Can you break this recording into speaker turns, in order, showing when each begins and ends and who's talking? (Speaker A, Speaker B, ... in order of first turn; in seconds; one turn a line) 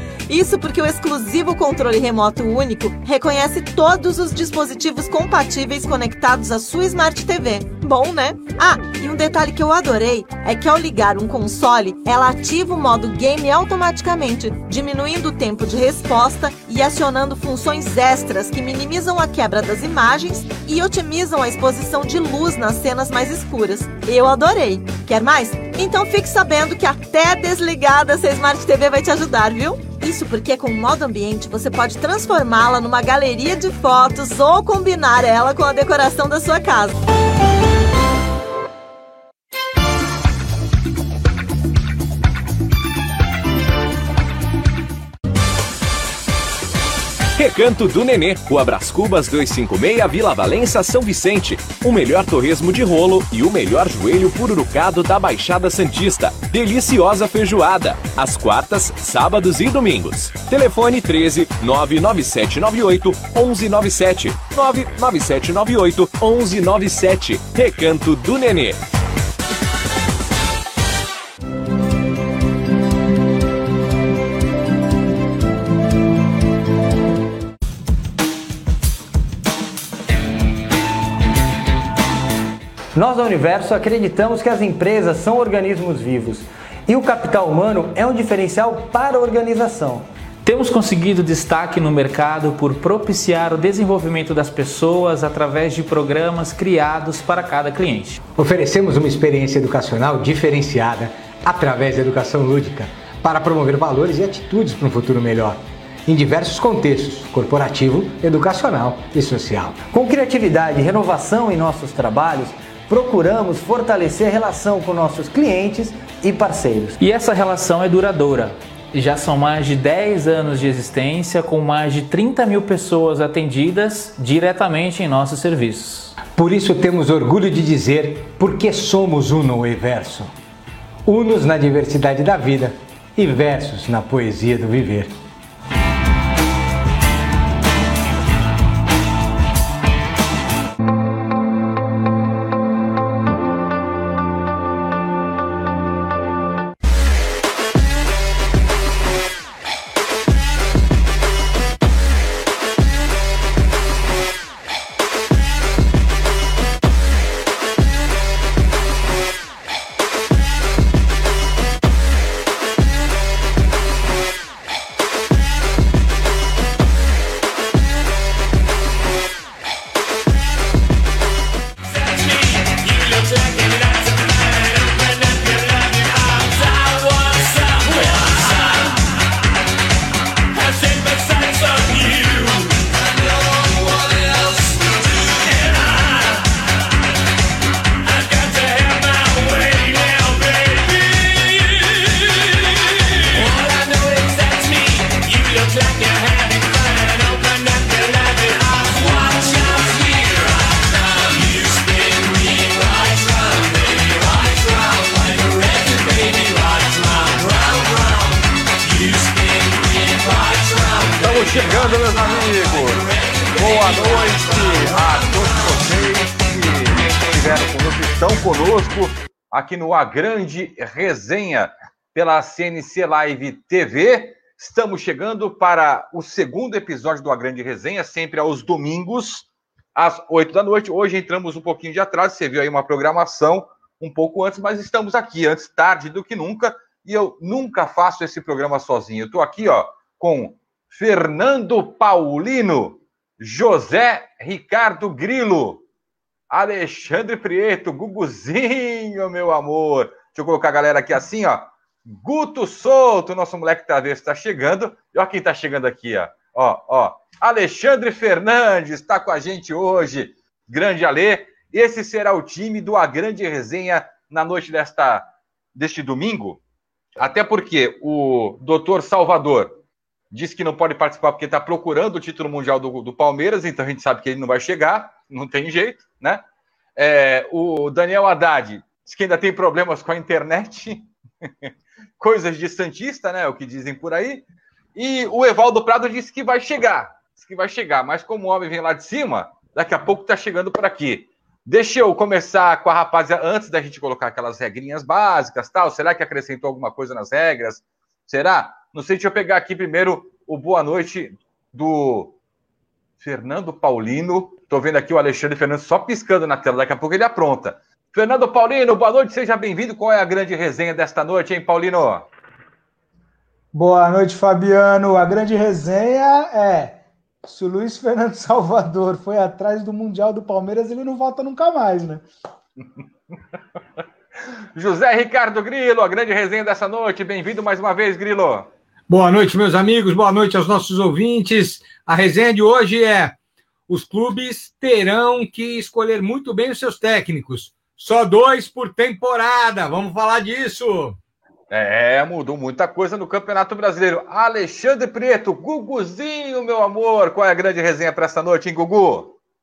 Speaker A: 0.3-37.0
Speaker B: 47.4-68.8
Speaker C: 82.9-90.0
Speaker D: 90.4-98.2
Speaker E: 98.4-109.9
Speaker C: 109.9-117.0
Speaker D: 117.0-126.1
Speaker E: 126.3-130.3
Speaker E: 131.1-135.1
Speaker F: 211.2-245.8
Speaker F: 246.5-266.6
Speaker F: 267.1-269.8
Speaker F: 270.3-276.4
Speaker F: 276.9-281.1
Speaker F: 282.2-284.4
Speaker F: 284.9-302.4
Speaker F: 303.2-312.2
Speaker G: 313.7-322.2
Speaker F: 324.7-328.7
Speaker H: 329.1-333.3
Speaker H: 333.9-341.2
Speaker F: 341.7-349.4